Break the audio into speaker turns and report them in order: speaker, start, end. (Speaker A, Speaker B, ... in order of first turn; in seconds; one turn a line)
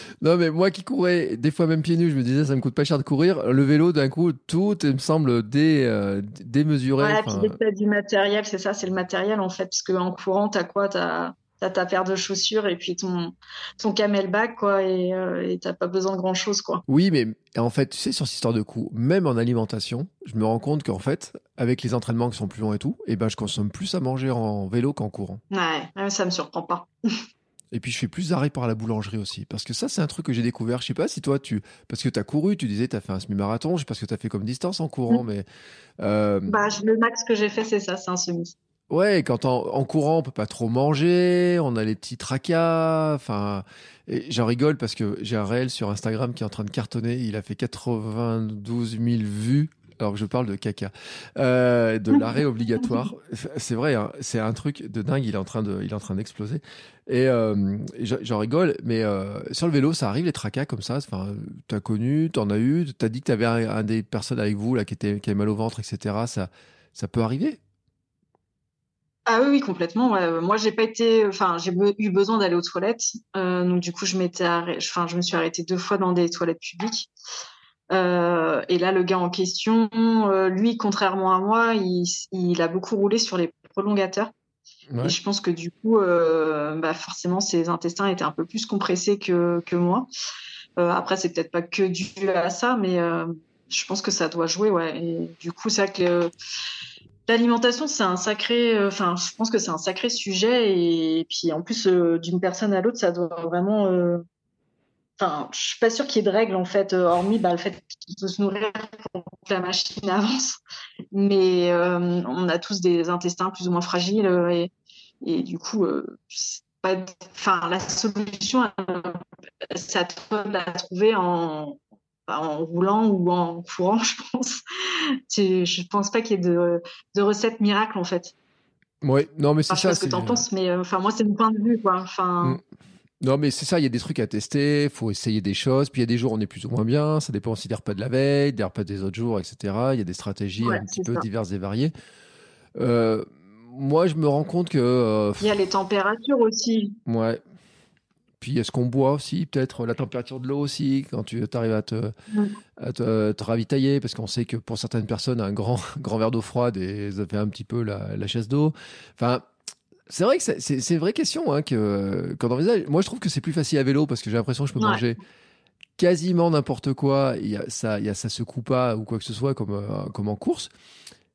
Speaker A: 0.2-7.6
Speaker B: 7.0-16.8
Speaker A: 16.9-25.4
Speaker B: 25.5-27.2
Speaker A: 27.7-35.5
Speaker A: 36.0-36.6
Speaker B: 36.5-38.5
Speaker A: 38.9-67.6
Speaker B: 69.3-77.1
Speaker B: 77.9-84.3
Speaker A: 84.9-85.2
Speaker B: 85.0-90.1
Speaker B: 90.8-96.3
Speaker B: 97.3-104.2
Speaker B: 105.2-110.6
Speaker B: 111.1-128.3
Speaker A: 129.0-130.4
Speaker B: 129.7-132.6
Speaker A: 133.2-141.9
Speaker B: 140.6-141.2
Speaker A: 142.8-145.5
Speaker B: 145.4-147.0
Speaker A: 147.1-147.4
Speaker A: 148.4-152.1
Speaker A: 152.8-159.4
Speaker A: 160.1-165.2
Speaker B: 164.8-165.1
Speaker A: 166.0-170.7